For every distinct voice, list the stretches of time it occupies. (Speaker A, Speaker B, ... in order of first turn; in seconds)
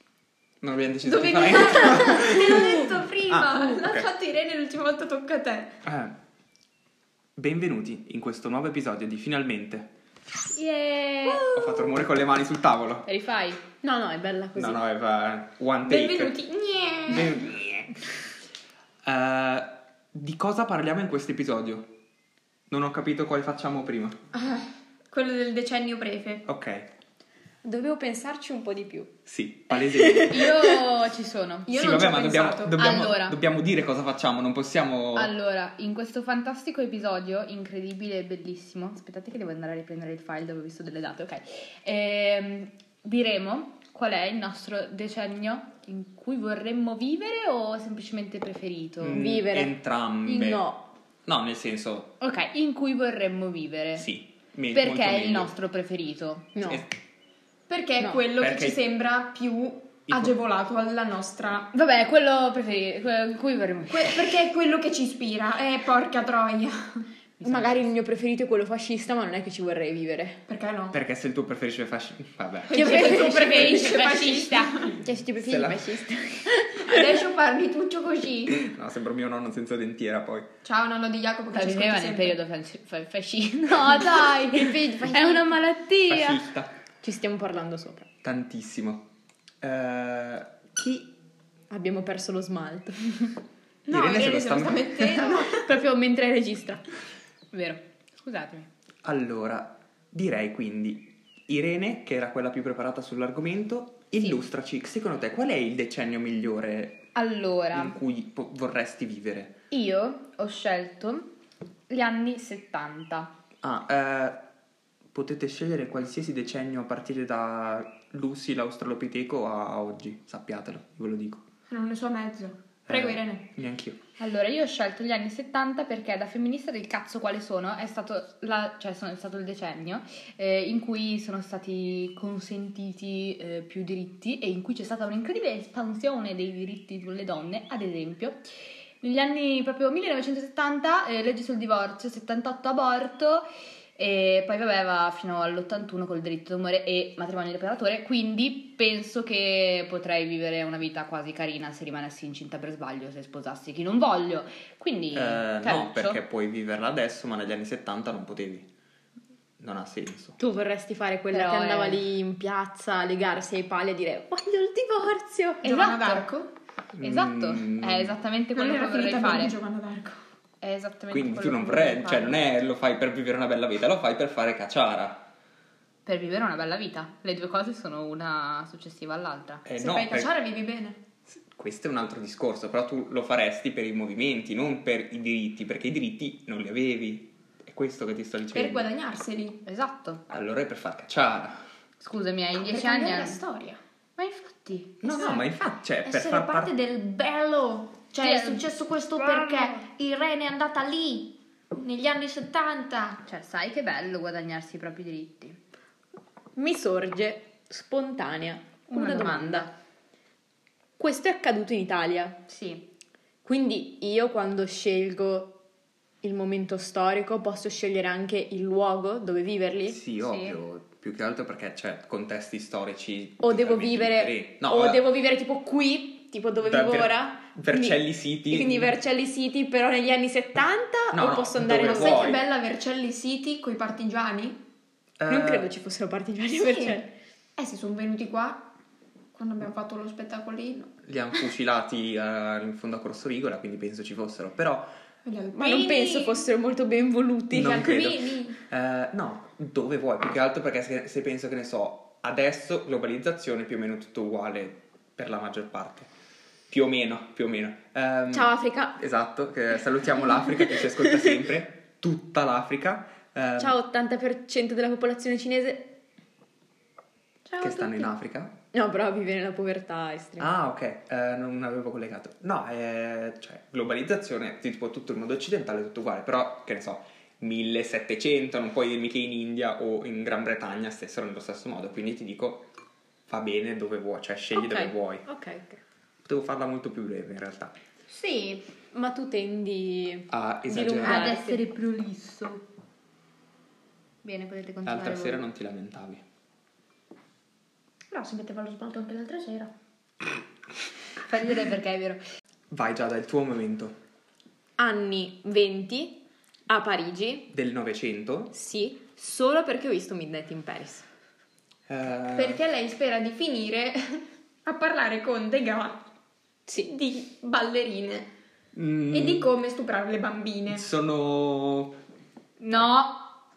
Speaker A: 0.6-4.1, 5.8-6.2, 7.4-9.9, 11.4-13.1, 14.6-16.4, 17.1-18.0, 19.0-21.9, 22.7-24.2, 26.5-26.9, 29.3-30.6, 31.7-35.3, 49.0-50.7, 51.2-52.1, 54.0-55.5, 58.4-58.8, 60.1-60.4, 70.9-73.1, 75.4-76.0, 78.5-80.5, 86.1-86.7, 88.2-89.1, 89.6-91.1, 93.9-95.5, 99.0-107.1, 107.7-109.6, 113.6-114.5, 115.1-121.4, 122.9-124.0, 155.1-158.7, 159.6-160.4, 166.9-168.2, 171.1-175.3, 179.7-180.3, 181.3-188.9, 190.3-191.6, 195.0-196.7, 219.9-225.0, 226.6-228.9, 231.1-232.4, 235.2-235.7, 241.1-244.9, 247.5-256.1, 256.7-263.8, 267.6-268.5, 270.4-282.7, 283.3-285.3, 286.2-287.8, 290.3-291.4, 294.9-296.2, 302.7-304.0, 307.5-308.5, 311.9-312.6, 318.7-319.5, 320.7-322.0
Speaker B: 1.1-5.8, 15.8-17.4, 24.4-26.4, 31.7-32.8, 57.7-61.7, 63.9-67.1, 70.5-71.0, 72.7-75.0, 76.8-78.6, 80.6-82.4, 93.9-95.7, 121.7-123.5, 165.6-166.5, 168.6-170.2, 179.8-181.0, 188.5-189.6, 192.6-193.8, 195.0-203.2, 231.8-234.6, 236.5-237.0, 237.6-238.7, 239.3-240.9, 245.2-246.4, 247.6-248.6, 298.1-299.7, 312.3-316.0, 316.9-318.3, 319.1-320.9
Speaker C: 10.5-11.7, 13.1-13.6, 30.3-31.7, 32.8-33.4, 35.1-49.2, 52.2-54.1, 54.7-56.8, 61.7-64.3, 67.4-67.9, 72.8-74.7, 81.5-86.4, 97.5-98.7, 107.2-108.0, 109.7-111.3, 111.9-113.3, 124.2-138.4, 139.0-156.2, 161.3-162.0, 165.6-166.3, 167.0-169.5, 170.6-172.4, 176.1-179.6, 189.7-190.2, 192.0-193.4, 194.2-195.0, 198.2-199.8, 203.2-205.6, 208.9-209.7, 212.5-212.9, 220.2-220.6, 288.1-288.6, 291.0-292.6, 294.2-295.4, 301.3-302.2, 322.6-323.3
Speaker D: 13.8-14.8, 27.6-29.1, 29.7-30.7, 49.1-50.9, 56.5-56.8, 67.4-70.4, 72.7-77.2, 84.0-85.6, 87.0-88.1, 91.7-93.3, 95.6-96.8, 160.4-165.7, 206.6-209.7, 211.0-212.4, 213.4-215.6, 216.2-220.0, 223.4-232.3, 235.3-237.1, 245.6-247.9, 258.3-259.0, 263.6-265.9, 268.7-270.5, 284.5-285.8, 288.9-291.6, 304.8-307.5, 308.5-311.1, 316.7-316.9